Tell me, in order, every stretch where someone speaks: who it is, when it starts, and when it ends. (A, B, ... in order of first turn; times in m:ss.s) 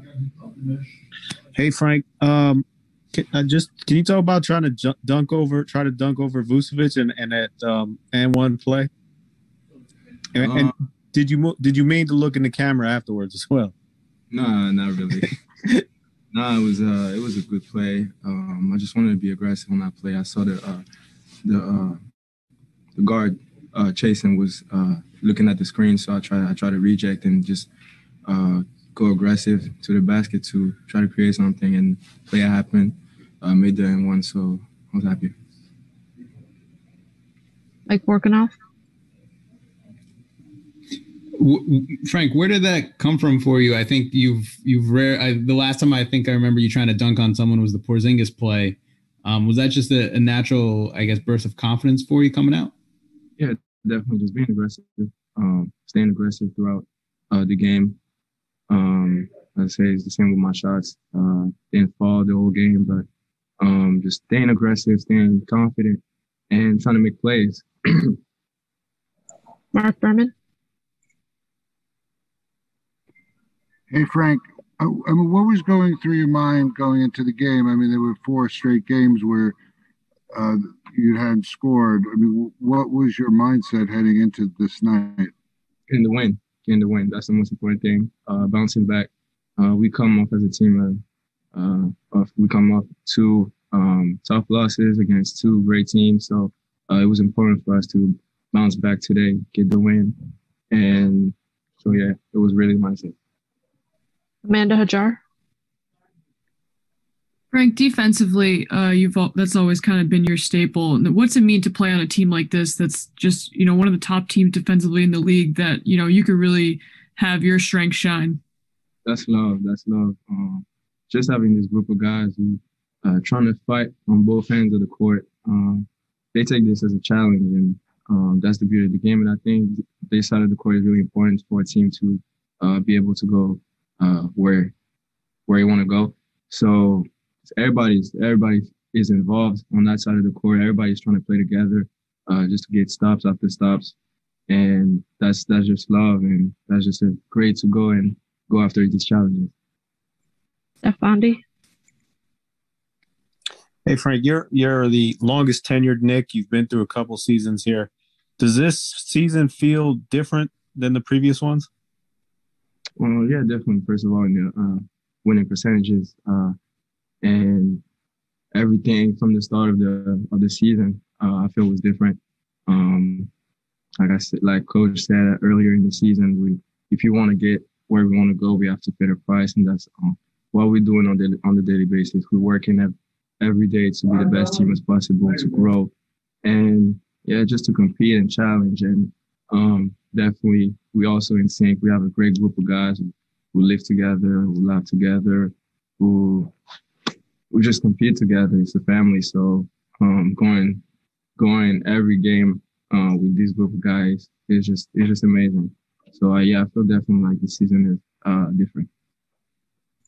0:01.5-0:08.9 A
0:10.3-0:13.7 A
0:10.4-0:10.7 B
0:14.3-0:15.4 B
0:16.3-0:20.8 B
0:21.4-0:22.0 B
0:23.0-0:27.7 B
0:28.2-0:35.3 B
0:37.9-0:38.5 C
0:41.4-0:52.7 D
0:53.4-0:58.0 B
0:58.7-1:03.0 B
1:03.6-1:08.2 B
1:09.7-1:10.3 C
1:13.9-1:19.5 E
1:20.3-1:25.3 E
1:25.9-1:31.0 B
1:31.5-1:40.1 B
1:40.7-1:43.1 B
1:44.4-1:45.2 C
1:47.5-1:58.4 F
1:59.0-2:14.7 B
2:15.5-2:23.9 B
2:24.5-2:29.5 B
2:30.8-2:31.4 C
2:33.8-2:41.7 A
2:43.0-2:46.5 B
2:47.2-2:47.8 B
2:48.5-2:53.3 B
2:54.0-3:05.9 B
3:06.4-3:16.5 B
3:17.5-3:20.8 B
3:21.4-3:28.9 B